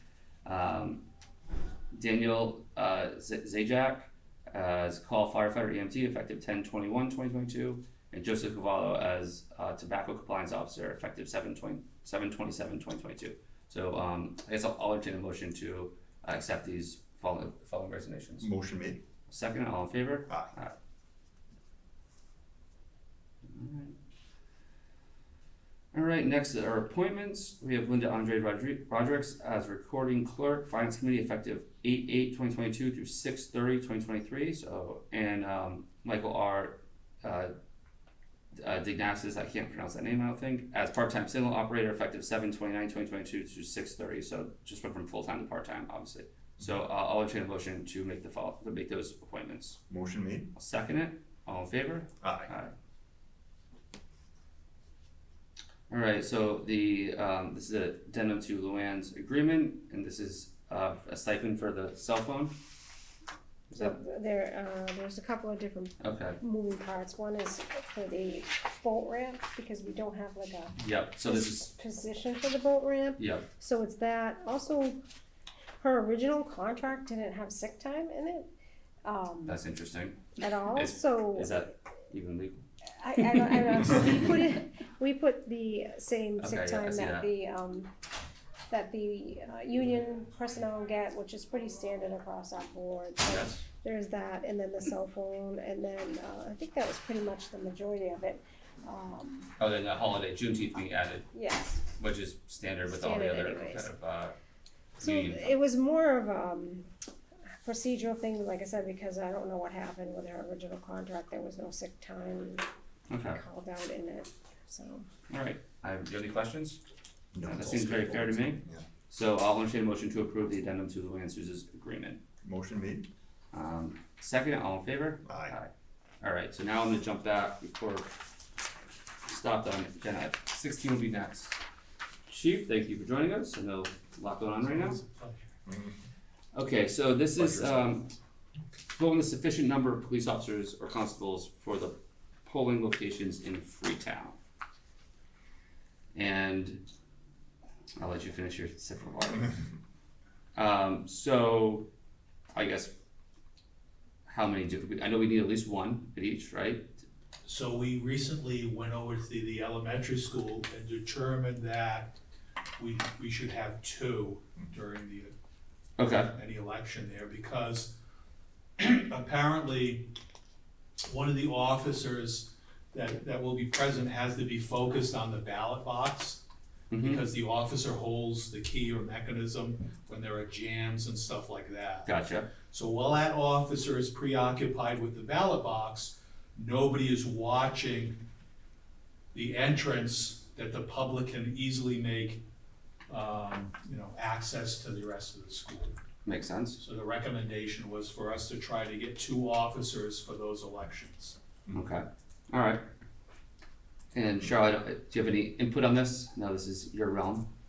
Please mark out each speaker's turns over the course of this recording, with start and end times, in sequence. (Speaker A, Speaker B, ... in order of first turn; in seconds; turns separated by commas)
Speaker A: 0.4-1.0, Speaker A: 1.9-18.5, Speaker B: 18.4-19.0, Speaker A: 19.3-20.7, Speaker A: 23.5-24.0, Speaker A: 25.9-37.5, Speaker A: 38.6-49.8, Speaker B: 49.9-50.5, Speaker A: 50.5-52.7, Speaker B: 52.2-52.5, Speaker A: 55.9-62.5, Speaker A: 63.7-64.0, Speaker C: 63.8-75.0, Speaker A: 66.0-66.4, Speaker A: 70.8-71.7, Speaker A: 73.2-73.5, Speaker C: 75.8-78.5, Speaker C: 79.0-79.6, Speaker A: 79.5-82.6, Speaker C: 80.4-81.6, Speaker C: 83.0-87.9, Speaker A: 86.4-87.3, Speaker C: 88.7-99.5, Speaker A: 93.2-93.6, Speaker A: 99.6-101.3, Speaker C: 101.3-101.8, Speaker A: 101.9-104.4, Speaker C: 102.8-103.9, Speaker A: 105.0-105.6, Speaker C: 105.0-106.8, Speaker C: 107.6-112.6, Speaker A: 113.1-113.4, Speaker C: 113.3-115.1, Speaker A: 115.3-116.8, Speaker B: 117.3-118.8, Speaker A: 117.4-122.2, Speaker B: 122.4-123.1, Speaker A: 123.5-128.1, Speaker B: 125.2-125.5, Speaker A: 129.3-131.5, Speaker A: 132.3-135.0, Speaker D: 134.7-135.6, Speaker B: 135.7-136.0, Speaker A: 136.5-138.1, Speaker B: 137.4-137.9, Speaker A: 138.9-144.4, Speaker A: 146.1-146.8, Speaker A: 148.0-149.6, Speaker A: 150.5-151.9, Speaker A: 152.5-152.9, Speaker A: 154.3-157.0, Speaker D: 157.4-162.2, Speaker D: 162.8-165.3, Speaker A: 166.0-166.3, Speaker D: 166.3-167.9, Speaker D: 168.8-170.1, Speaker D: 171.0-176.4, Speaker A: 176.9-177.2, Speaker D: 177.0-182.1, Speaker A: 182.0-182.5, Speaker D: 182.7-188.2, Speaker D: 189.3-192.4, Speaker D: 193.1-196.0, Speaker A: 196.2-196.8, Speaker D: 196.8-201.4, Speaker A: 201.7-202.8, Speaker A: 204.1-207.5